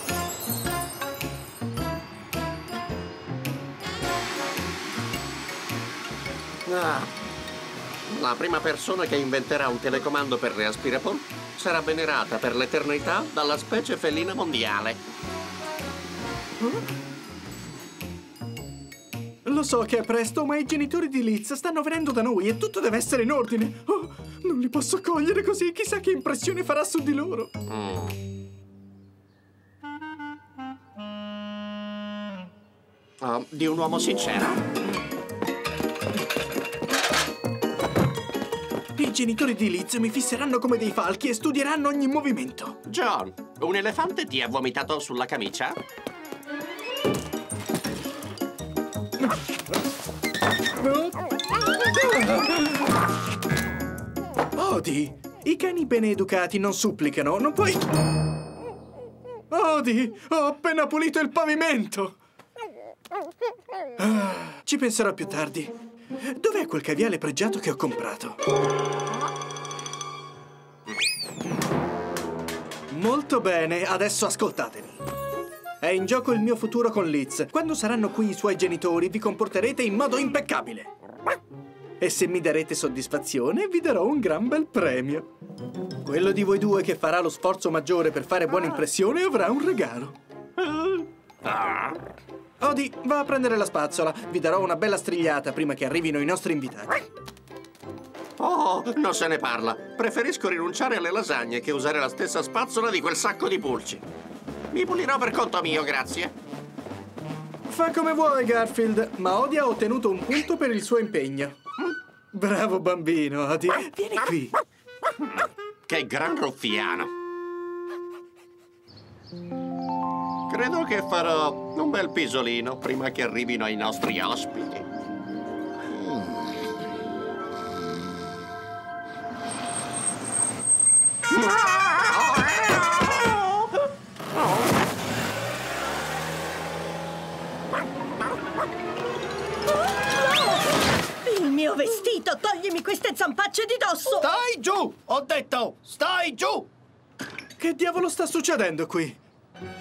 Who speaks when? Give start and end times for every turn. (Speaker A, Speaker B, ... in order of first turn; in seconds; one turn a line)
Speaker A: 6.7-7.1
Speaker A: 8.1-15.0
Speaker B: 19.4-27.5
Speaker A: 27.7-28.1
Speaker A: 33.2-34.6
Speaker B: 39.0-42.8
Speaker A: 42.9-45.8
Speaker B: 50.8-51.2
Speaker B: 51.9-52.7
Speaker B: 54.5-57.9
Speaker B: 59.5-62.2
Speaker B: 64.0-65.7
Speaker B: 66.3-68.4
Speaker B: 72.9-75.0
Speaker B: 75.8-80.9
Speaker B: 82.0-85.2
Speaker B: 86.0-90.2
Speaker A: 90.6-92.0
Speaker B: 92.6-97.0
Speaker A: 98.4-104.0
Speaker A: 104.7-106.3
Speaker B: 107.7-111.5
Speaker B: 112.3-114.5
Speaker A: 115.9-117.1
Speaker A: 120.5-124.9
Speaker A: 131.3-133.6
Speaker C: 139.8-144.3
Speaker D: 144.1-146.7
Speaker B: 147.6-149.2